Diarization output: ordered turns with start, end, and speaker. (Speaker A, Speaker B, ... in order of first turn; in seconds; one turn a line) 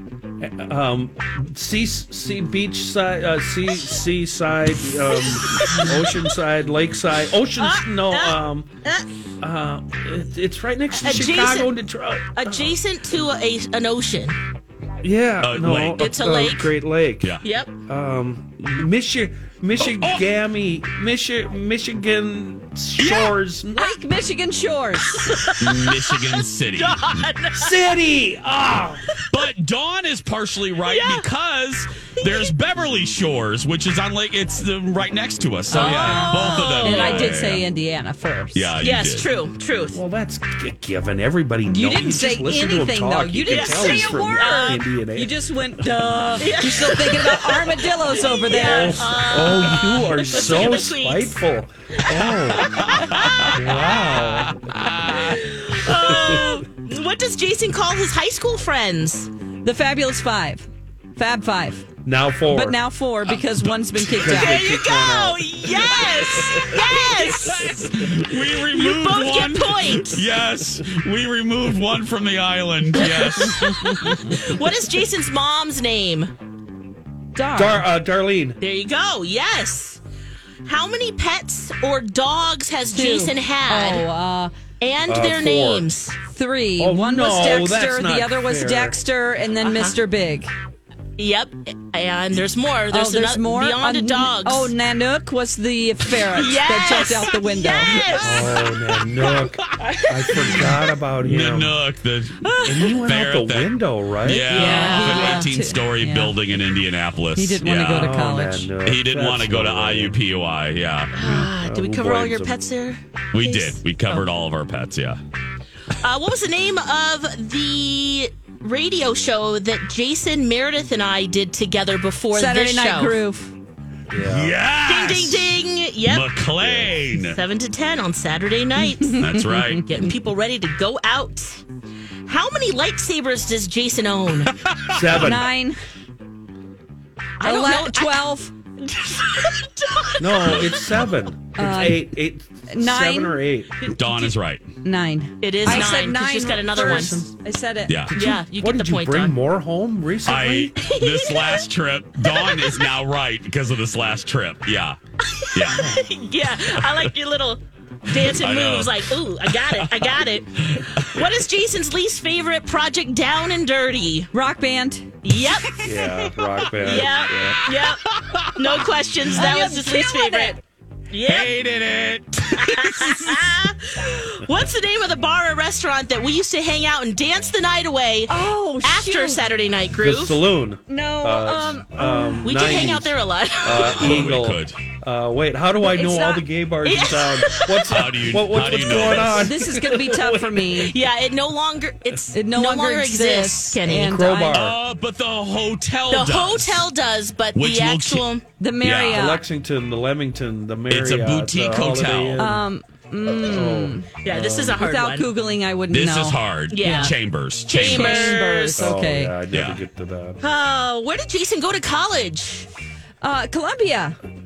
Speaker A: 0.4-8.7
Speaker B: 5.1-6.3
Speaker B: 7.6-9.1
Speaker A: 9.4-12.8
Speaker B: 11.0-11.7
Speaker B: 12.4-14.4
Speaker A: 15.0-17.4
Speaker C: 15.4-16.1
Speaker B: 16.0-16.7
Speaker B: 17.4-17.7
Speaker A: 17.9-24.0
Speaker C: 23.0-23.3
Speaker D: 23.8-25.5
Speaker B: 25.1-27.9
Speaker C: 25.6-27.3
Speaker A: 27.6-29.1
Speaker C: 29.3-37.6
Speaker B: 30.9-31.3
Speaker B: 32.2-32.5
Speaker D: 35.7-38.8
Speaker B: 35.7-37.4
Speaker C: 38.5-39.3
Speaker B: 38.8-40.0
Speaker A: 39.9-46.1
Speaker D: 41.7-49.6
Speaker B: 43.5-44.8
Speaker B: 46.4-51.4
Speaker A: 48.5-54.6
Speaker B: 52.0-53.8
Speaker C: 52.8-55.4
Speaker B: 55.1-59.3
Speaker A: 56.1-56.6
Speaker D: 59.6-61.9
Speaker A: 62.0-62.8
Speaker D: 62.5-64.8
Speaker A: 64.1-67.3
Speaker B: 64.2-67.8
Speaker C: 67.4-74.1
Speaker B: 68.6-70.2
Speaker B: 73.0-76.3
Speaker D: 77.3-77.9
Speaker A: 77.5-78.6
Speaker B: 78.6-80.0
Speaker B: 80.7-84.1
Speaker D: 82.9-84.5
Speaker B: 84.8-86.2
Speaker A: 85.1-85.9
Speaker D: 86.3-90.5
Speaker A: 86.8-89.0
Speaker B: 89.6-90.0
Speaker B: 91.2-94.7
Speaker D: 92.9-98.1
Speaker B: 96.2-99.1
Speaker A: 98.2-101.8
Speaker B: 99.8-100.8
Speaker C: 101.2-108.2
Speaker B: 102.4-103.0
Speaker A: 102.6-104.6
Speaker D: 104.5-106.4
Speaker B: 104.5-105.5
Speaker D: 107.4-108.7
Speaker A: 107.9-110.2
Speaker C: 108.8-111.4
Speaker B: 111.2-114.2
Speaker A: 111.4-112.6
Speaker C: 113.3-115.2
Speaker B: 116.0-123.2
Speaker D: 122.3-123.5
Speaker A: 124.1-124.6
Speaker C: 124.2-125.4
Speaker B: 124.8-126.4
Speaker C: 126.0-127.4
Speaker A: 126.6-126.9
Speaker B: 127.2-129.2
Speaker D: 128.8-129.9
Speaker C: 129.2-129.8
Speaker B: 129.9-131.6
Speaker B: 132.3-134.5
Speaker C: 134.7-135.0
Speaker A: 134.9-135.5
Speaker D: 135.1-135.8
Speaker B: 137.4-141.0
Speaker D: 137.4-138.5
Speaker A: 140.2-143.7
Speaker C: 140.4-140.8
Speaker D: 141.6-142.2
Speaker D: 142.7-143.4
Speaker B: 143.8-144.3
Speaker C: 143.9-144.7
Speaker D: 144.8-148.1
Speaker B: 145.4-147.2
Speaker A: 145.7-146.0
Speaker A: 146.7-147.3
Speaker A: 148.1-150.8
Speaker B: 148.1-149.4
Speaker C: 150.3-155.0
Speaker B: 150.8-151.7
Speaker B: 152.2-152.8
Speaker B: 155.3-164.3
Speaker C: 155.5-155.9
Speaker A: 155.8-156.0
Speaker C: 158.1-161.3
Speaker D: 164.3-165.1
Speaker B: 165.2-170.6
Speaker A: 165.8-167.6
Speaker C: 167.4-168.8
Speaker D: 169.4-170.6
Speaker B: 171.1-171.6
Speaker C: 171.3-173.4
Speaker B: 172.6-180.4
Speaker D: 178.3-179.4
Speaker A: 180.0-190.9
Speaker D: 180.9-182.9
Speaker B: 182.4-184.3
Speaker C: 183.7-184.8
Speaker D: 185.8-186.5
Speaker B: 186.8-188.1
Speaker C: 187.9-189.5
Speaker D: 189.0-190.9
Speaker B: 190.7-194.3
Speaker D: 192.3-194.7
Speaker A: 193.9-194.8
Speaker C: 194.5-196.9
Speaker B: 196.1-198.4
Speaker C: 197.6-198.3
Speaker D: 198.6-199.5
Speaker C: 198.8-199.2
Speaker A: 199.1-202.7
Speaker C: 200.9-202.5
Speaker D: 202.4-204.1
Speaker A: 203.4-204.8
Speaker B: 204.2-205.3
Speaker D: 204.8-207.1
Speaker C: 205.9-208.4
Speaker B: 206.7-209.0
Speaker D: 207.8-209.4
Speaker A: 208.8-210.4
Speaker C: 209.5-209.8
Speaker B: 210.4-212.7
Speaker D: 213.2-214.2